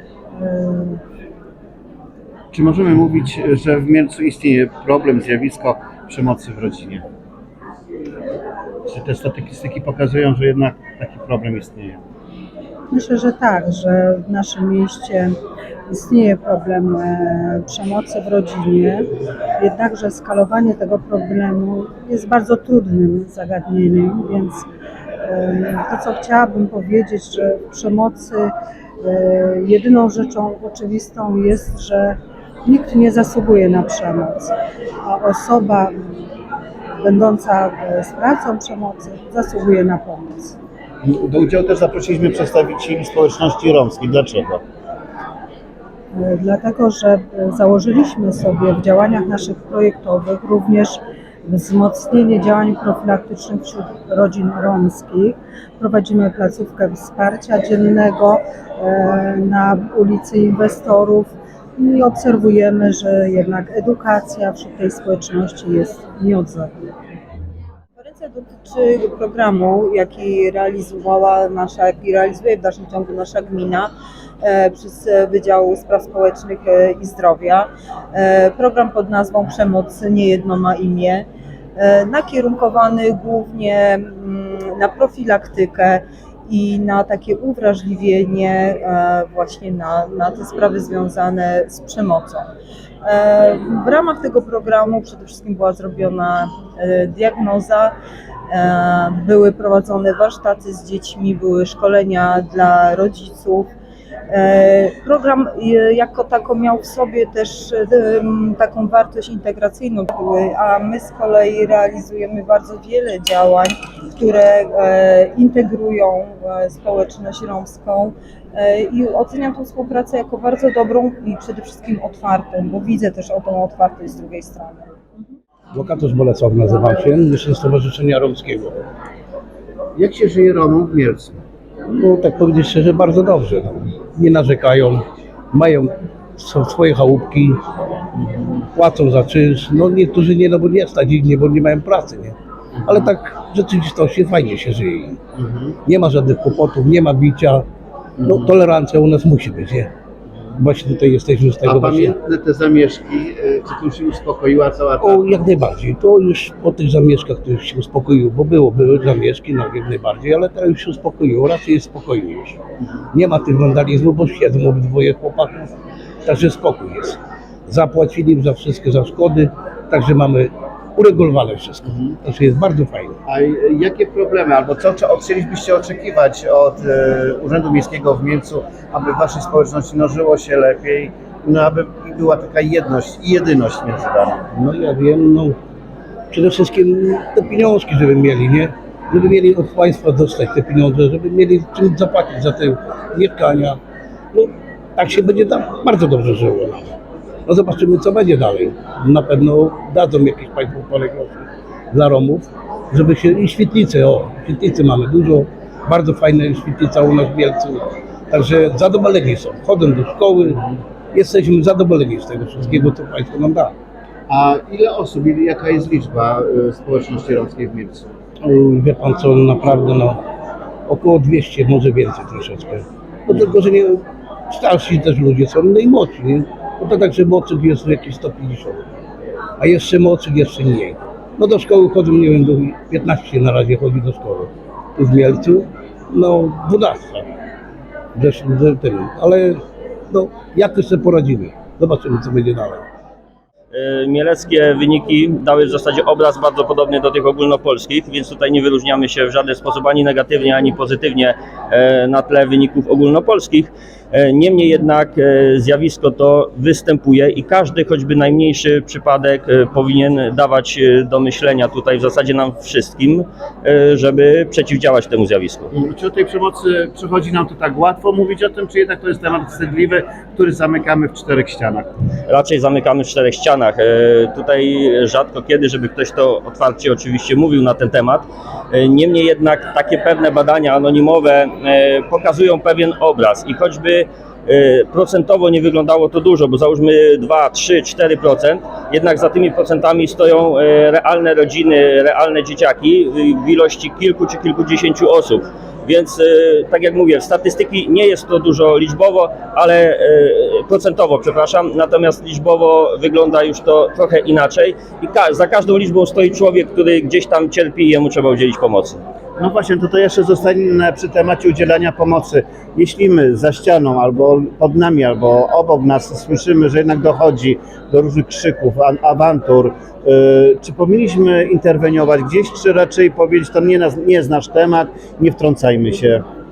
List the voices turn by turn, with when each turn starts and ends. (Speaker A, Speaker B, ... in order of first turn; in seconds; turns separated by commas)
Speaker A: 0.3-1.0, Speaker B: 2.5-7.0, Speaker B: 8.9-12.0, Speaker A: 12.9-24.7, Speaker A: 25.2-36.2, Speaker A: 37.0-40.6, Speaker B: 41.0-44.6, Speaker A: 46.1-66.7, Speaker C: 68.0-73.9, Speaker C: 74.4-92.5, Speaker C: 93.0-97.9, Speaker C: 98.5-103.7, Speaker C: 104.3-125.0, Speaker D: 125.7-128.9, Speaker B: 130.0-131.4, Speaker D: 131.9-137.6, Speaker D: 138.7-142.4, Speaker B: 142.8-143.1, Speaker D: 142.9-145.2, Speaker B: 145.4-145.8, Speaker D: 145.9-147.7, Speaker D: 148.2-149.9, Speaker D: 150.6-152.2, Speaker B: 151.7-155.2, Speaker D: 155.0-162.6, Speaker D: 163.1-165.7, Speaker D: 166.2-173.2, Speaker B: 173.3-184.4, Speaker D: 184.5-185.6, Speaker D: 186.3-193.8, Speaker D: 194.3-197.0, Speaker D: 197.5-213.7, Speaker B: 214.3-218.1, Speaker D: 218.4-220.2, Speaker D: 220.9-228.8, Speaker D: 229.6-237.3, Speaker D: 238.2-242.8, Speaker E: 243.7-265.7, Speaker B: 265.7-271.9, Speaker E: 272.3-309.0, Speaker B: 309.4-326.2